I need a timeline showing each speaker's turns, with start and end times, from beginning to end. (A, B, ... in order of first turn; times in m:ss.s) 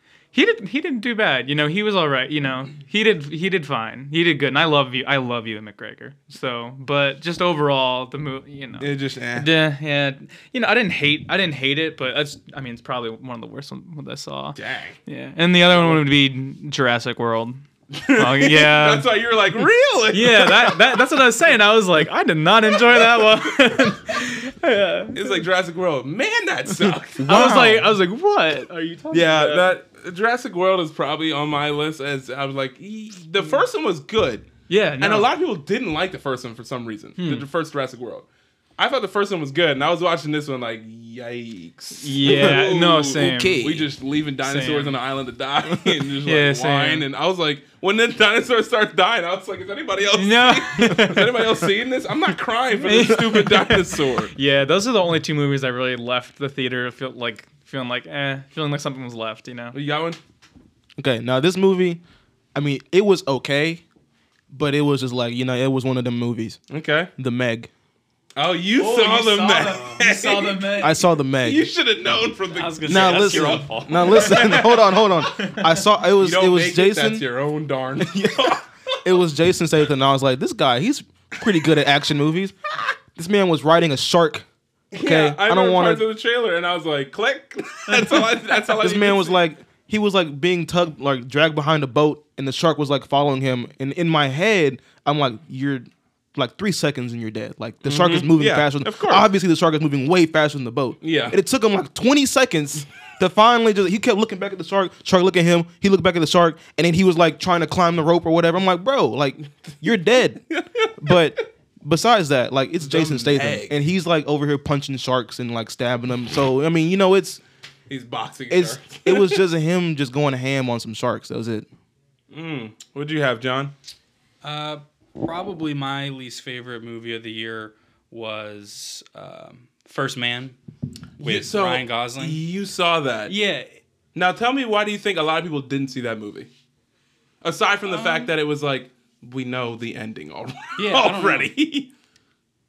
0:00.3-0:17.6 A
0:08.8-0:09.5 B
0:14.6-0:15.0 B
0:15.8-0:16.0 B
0:17.9-0:21.0 B
0:18.1-0:19.1 A
0:20.1-0:25.4 A
0:22.9-0:23.5 B
0:25.2-0:27.6 B
0:27.2-0:27.9 C
0:27.2-0:29.7 A
0:29.1-0:54.3 B
0:34.7-0:35.3 A
0:42.0-0:43.6 A
0:42.3-0:42.6 C
0:43.2-0:43.9 C
0:44.4-0:45.0 A
0:46.2-0:47.1 A
0:50.1-0:51.5 A
0:52.7-0:59.8 A
0:59.7-1:00.2 B
1:01.0-1:02.0 C
1:02.5-1:03.8 C
1:04.5-1:06.6 C
1:06.7-1:07.1 B
1:07.2-1:07.7 C
1:08.4-1:14.9 B
1:08.8-1:11.0 A
1:10.8-1:11.7 C
1:12.5-1:14.3 D
1:12.9-1:17.2 C
1:16.2-1:18.7 B
1:18.0-1:22.6 C
1:23.2-1:24.5 C
1:24.9-1:29.4 B
1:25.0-1:26.0 C
1:28.2-1:50.4 C
1:37.8-1:39.3 B
1:41.0-1:41.4 B
1:51.0-1:57.4 C
1:52.8-1:53.8 B
1:57.9-1:59.4 B
1:58.5-2:01.7 C
2:02.3-2:03.7 B
2:04.4-2:10.6 D
2:11.2-2:13.3 B
2:11.2-2:12.4 D
2:13.3-2:13.7 D
2:14.2-2:16.5 B
2:17.4-2:21.9 B
2:17.8-2:18.3 D
2:20.8-2:21.5 D